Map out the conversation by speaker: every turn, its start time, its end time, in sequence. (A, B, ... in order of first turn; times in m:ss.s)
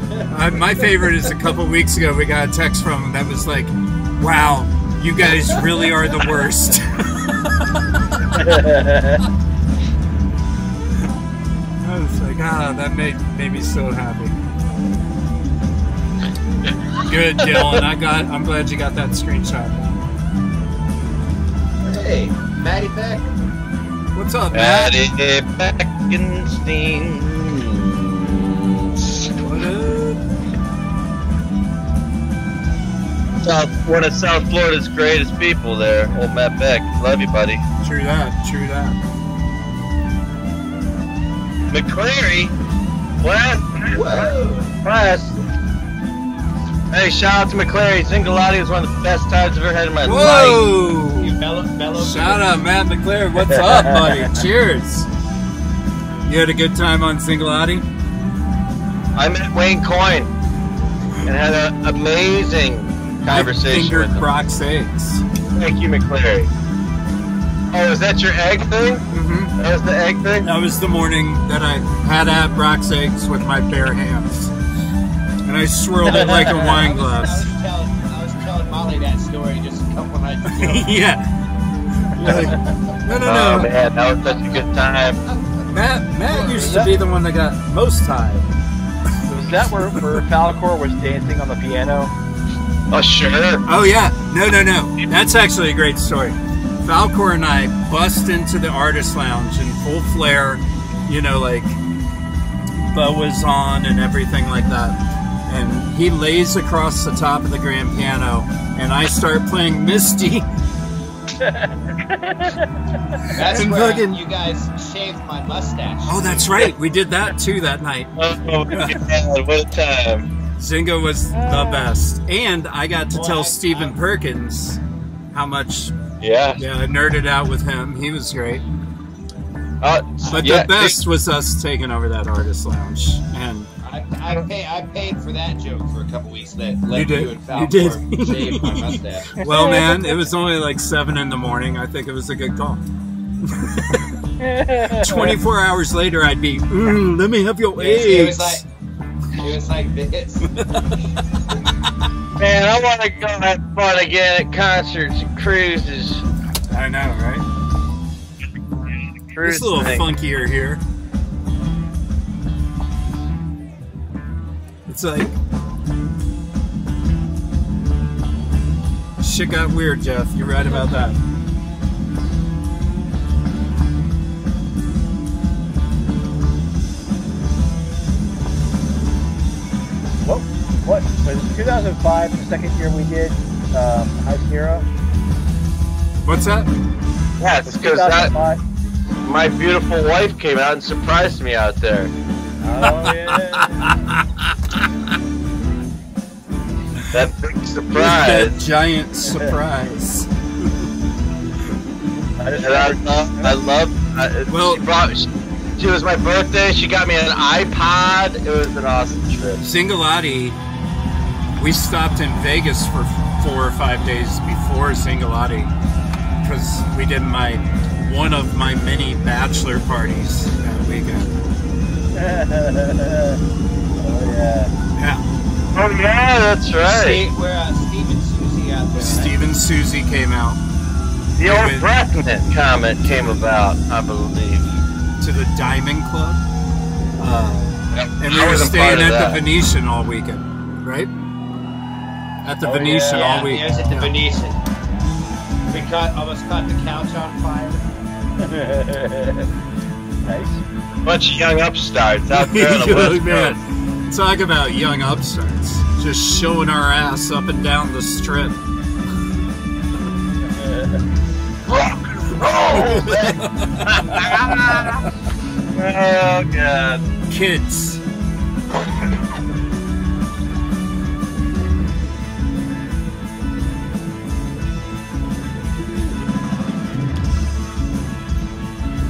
0:00.3-0:07.7 A
0:08.4-0:09.2 B
0:11.8-0:14.4 A
0:17.0-0:20.0 A
0:21.8-0:23.3 C
0:24.1-0:25.0 A
0:24.5-0:28.5 D
0:29.4-0:30.2 A
0:33.4-0:37.6 D
0:37.8-0:39.0 A
0:41.7-0:42.5 D
0:43.2-0:44.3 D
0:43.9-0:44.7 C
0:44.8-0:45.4 D
0:46.9-0:50.6 D
0:50.0-0:51.4 A
0:51.2-0:52.5 C
0:52.0-0:55.1 A
0:53.5-0:54.4 B
0:56.2-0:57.8 A
0:59.1-1:00.3 D
1:01.2-1:04.2 D
1:03.3-1:05.2 A
1:05.5-1:06.5 D
1:07.7-1:09.0 D
1:09.1-1:09.5 A
1:09.6-1:10.5 D
1:10.4-1:14.5 A
1:15.4-1:17.4 A
1:16.1-1:20.8 C
1:20.5-1:21.3 A
1:22.1-1:23.7 A
1:23.2-1:25.2 D
1:25.2-1:25.6 C
1:25.7-1:28.5 A
1:26.3-1:27.0 C
1:26.6-1:26.9 B
1:29.2-1:32.1 B
1:32.9-1:33.6 D
1:33.7-1:41.8 A
1:42.8-1:50.5 A
1:51.4-1:52.6 B
1:53.2-1:54.2 A
1:53.3-1:56.4 C
1:56.0-1:58.1 A
1:58.2-2:00.3 D
2:00.6-2:04.8 A
2:01.3-2:01.9 B
2:03.1-2:03.9 C
2:05.3-2:05.9 A
2:06.2-2:06.6 D
2:06.6-2:08.6 A
2:09.8-2:11.0 D
2:10.3-2:13.7 A
2:13.8-2:19.3 C
2:16.9-2:22.8 A
2:19.4-2:20.0 B
2:23.4-2:24.1 A
2:24.4-2:25.4 B
2:25.0-2:28.6 A
2:27.8-2:28.6 C
2:29.4-2:30.5 C
2:30.5-2:31.0 A
2:32.4-2:36.2 D
2:36.7-2:37.4 A
2:38.9-2:40.1 D
2:39.4-2:40.8 A
2:44.9-2:45.3 A
2:49.2-2:51.2 A
3:00.2-3:04.8 B
3:06.2-3:06.7 A
3:07.4-3:08.3 D
3:07.6-3:08.6 B
3:09.2-3:12.1 D
3:12.6-3:13.9 B
3:12.8-3:14.4 A
3:17.1-3:18.5 D
3:17.9-3:20.7 A
3:19.2-3:19.5 B
3:22.4-3:23.6 B
3:22.6-3:29.6 D
3:24.5-3:24.8 A
3:29.6-3:30.6 A
3:31.6-3:35.7 A
3:36.4-3:41.3 A
3:42.1-3:43.4 B
3:44.0-3:44.7 B
3:45.0-3:45.2 A
3:45.7-3:47.2 D
3:46.8-3:49.4 C
3:48.9-3:50.6 A
3:51.4-3:54.8 D
3:51.4-3:51.9 A
3:55.2-3:56.4 A
3:57.2-4:01.1 A
3:57.9-3:59.4 D
4:02.4-4:04.1 A
4:02.6-4:04.5 C
4:05.7-4:07.8 C
4:08.4-4:09.5 B
4:10.2-4:10.6 B
4:11.0-4:13.6 D
4:12.4-4:18.6 A
4:20.6-4:21.0 B
4:21.7-4:25.0 D
4:22.7-4:24.9 A
4:25.7-4:27.0 D
4:27.3-4:28.0 A